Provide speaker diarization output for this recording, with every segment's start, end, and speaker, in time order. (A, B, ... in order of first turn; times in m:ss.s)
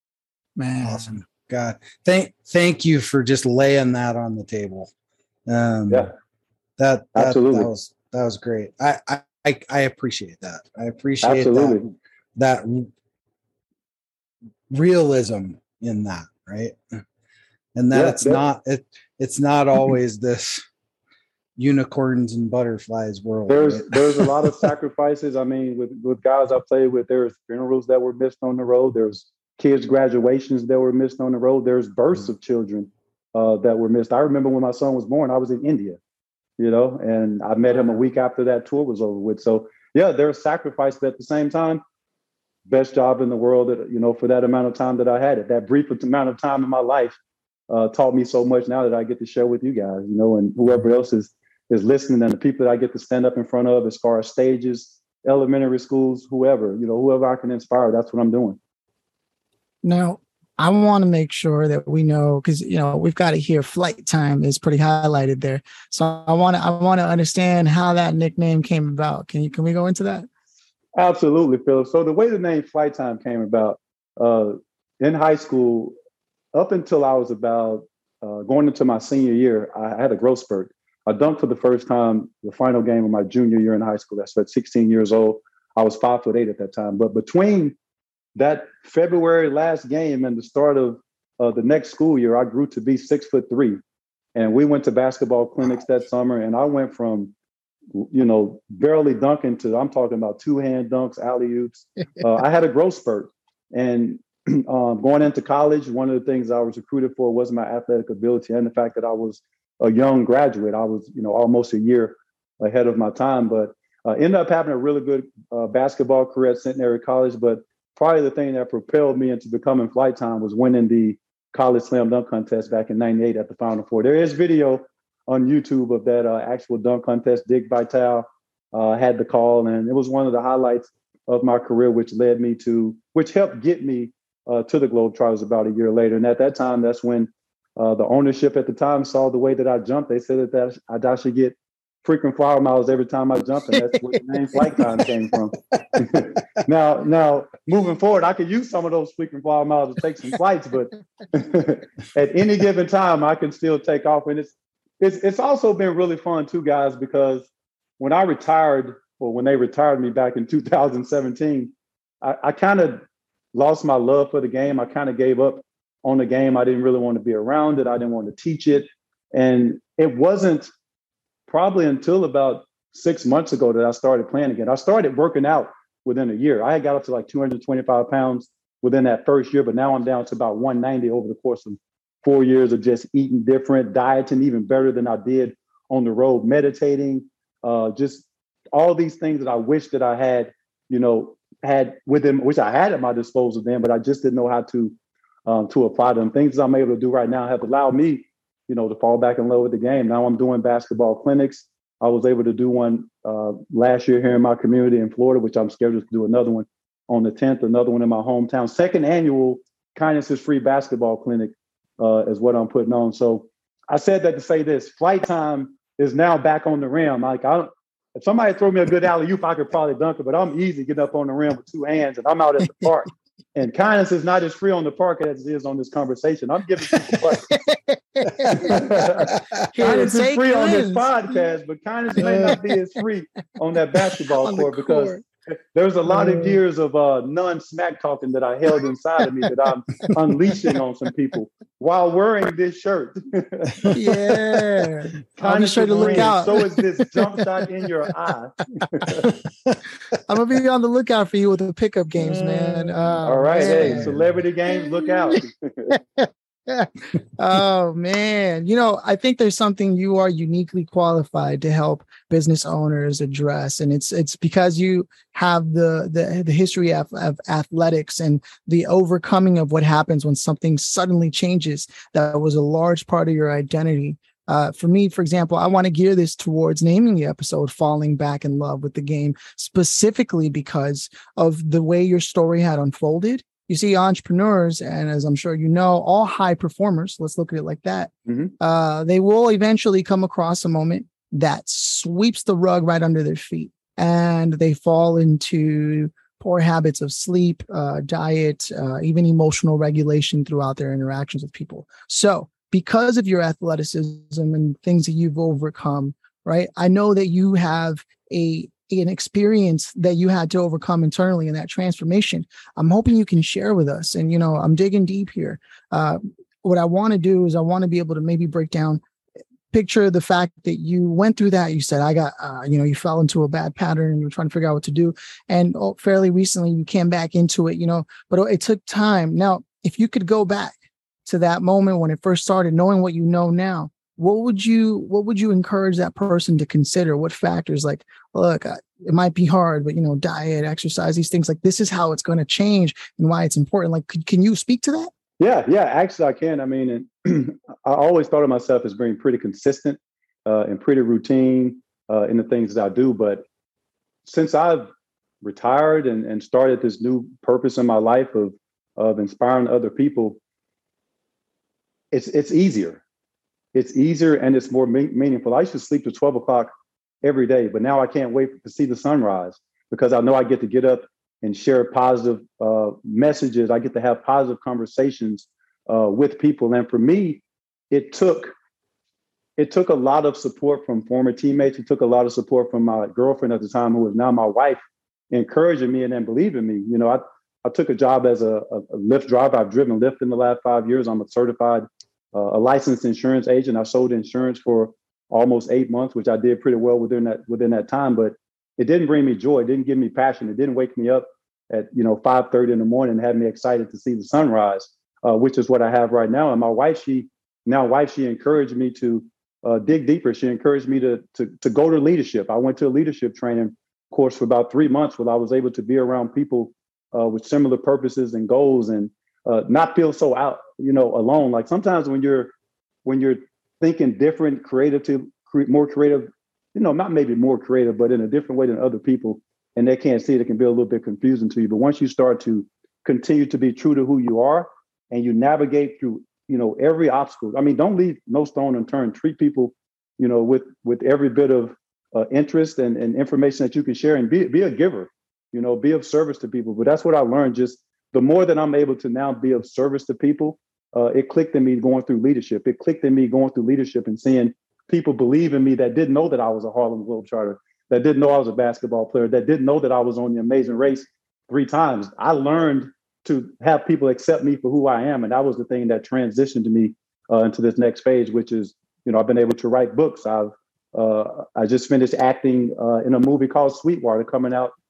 0:00.6-0:01.1 A
0:00.8-0:04.9 B
0:05.5-0:06.1 B
0:06.8-0:11.8 B
0:07.2-0:07.7 C
0:11.2-0:11.9 C
0:12.4-0:12.9 B
0:14.7-0:16.8 B
0:17.8-0:20.6 B
0:17.9-0:18.4 C
0:21.6-0:24.7 B
0:23.5-0:36.0 C
0:36.6-0:41.8 C
0:42.7-0:47.2 C
0:47.7-0:58.6 C
0:59.8-1:10.3 A
1:11.0-1:16.0 C
1:16.5-1:27.8 C
1:28.4-1:33.8 C
1:34.4-1:37.3 C
1:38.0-2:37.5 C
2:23.7-2:24.9 A
2:38.0-2:43.0 C
2:43.5-2:50.7 C
2:51.5-3:14.9 C
3:15.5-3:47.5 C
3:47.5-3:48.8 A
3:48.5-4:03.9 C
3:48.7-3:49.6 B
3:49.7-3:51.4 A
3:52.2-3:52.6 A
3:52.2-3:52.6 B
3:54.4-3:55.2 A
3:56.1-3:56.6 A
4:03.8-4:04.6 B
4:03.9-4:06.6 A
4:05.4-4:09.3 C
4:06.0-4:06.4 B
4:09.3-4:09.8 B
4:10.3-4:14.2 A
4:12.2-4:14.4 B
4:13.2-4:15.9 C
4:14.7-5:19.0 A
4:48.3-4:48.5 C
5:19.7-5:45.1 A
5:45.4-5:53.4 C
5:54.2-5:54.9 C
5:55.4-6:00.4 C
6:02.1-6:03.0 C
6:03.7-6:06.7 C
6:07.2-6:18.5 C
6:19.6-7:02.5 C
7:03.0-7:54.7 C